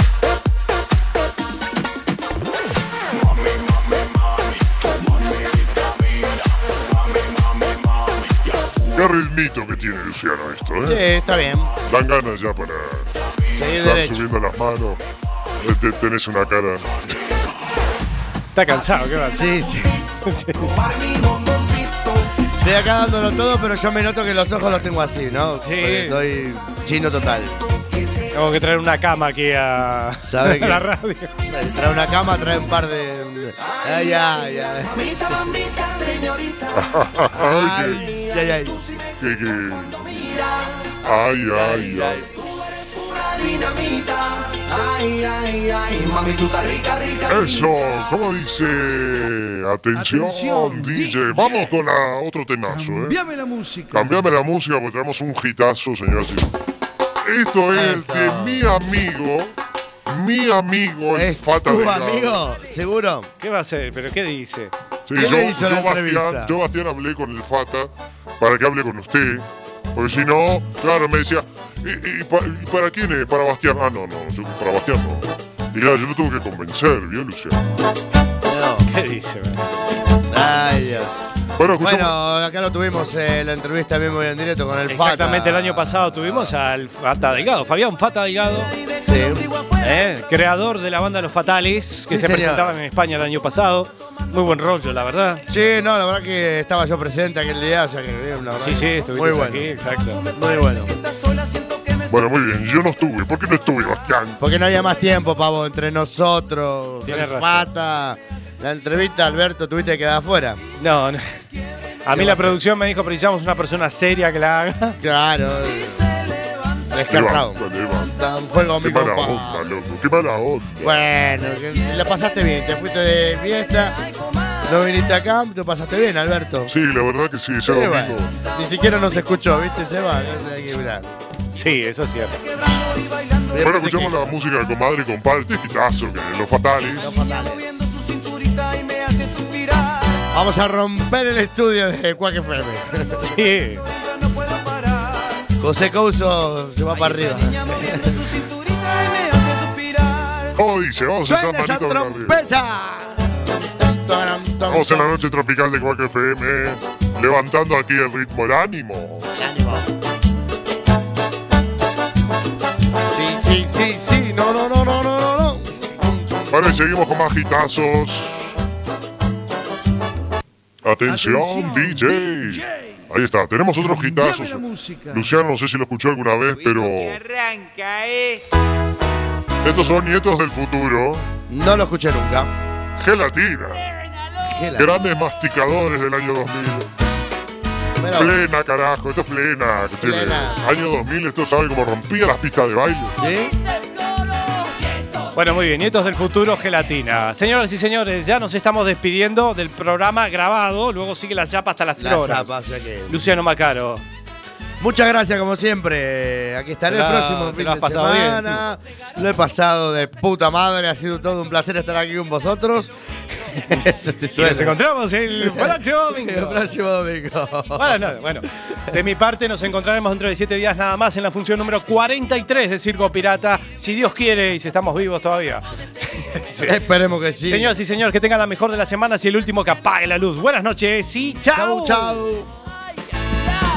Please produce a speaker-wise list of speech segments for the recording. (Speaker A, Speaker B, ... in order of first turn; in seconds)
Speaker A: 8.9-11.0, 11.8-13.1, 13.8-15.0, 15.6-17.1, 36.7-38.0, 39.2-40.0, 41.0-42.3, 47.3-53.2, 53.9-56.5, 57.2-59.5, 60.1-62.4, 65.1-77.6, 81.6-82.1, 102.1-104.4, 117.1-118.1, 118.8-121.0, 126.7-128.3, 133.6-137.0, 150.6-152.4, 154.7-159.3, 166.5-168.5, 170.8-177.2, 179.6-181.3, 183.0-183.8, 184.8-186.9, 188.1-193.2
Speaker B: 10.8-11.7, 13.6-14.2, 19.3-19.9, 22.6-27.6, 30.3-30.9, 31.5-35.0, 37.3-38.8, 41.5-42.3, 57.7-58.7, 61.1-63.3, 65.2-66.6, 78.4-78.9, 80.3-86.5, 89.0-89.5, 92.1-92.8, 95.5-99.8, 100.3-100.9, 104.4-110.6, 112.1-112.6, 115.0-116.0, 116.9-119.7, 120.8-124.0, 124.7-126.7, 127.7-131.2, 133.5-134.2, 137.0-137.8, 140.3-143.3, 145.6-148.2, 151.2-155.1, 159.3-159.9, 163.1-166.8, 181.5-182.5, 184.4-185.0, 188.0-188.4, 190.0-190.7, 193.2-193.5, 202.0-203.3, 204.8-212.9, 213.7-214.8, 215.4-218.1, 226.6-227.8, 231.5-232.5
Speaker C: 18.6-19.6, 20.2-20.7, 25.6-26.2, 28.3-31.3, 63.4-64.7, 78.9-80.0, 84.9-88.7, 89.8-95.4, 98.6-100.2, 107.0-107.7, 110.8-111.2, 112.1-115.0, 131.6-132.4, 143.2-143.8, 195.3-202.5, 203.1-204.0, 206.9-208.6, 214.4-216.8, 217.7-226.8, 227.4-232.2
Speaker D: 20.6-22.3, 33.8-34.1, 34.8-37.0, 37.9-41.0, 42.4-47.7, 88.7-90.0, 99.8-102.2, 115.6-117.0, 123.8-124.8, 132.4-133.9, 137.0-140.3, 143.8-145.5, 146.9-150.6, 176.7-178.4, 193.8-194.6
Speaker E: 50.0-51.6, 52.8-54.1, 171.1-172.6, 174.0-175.3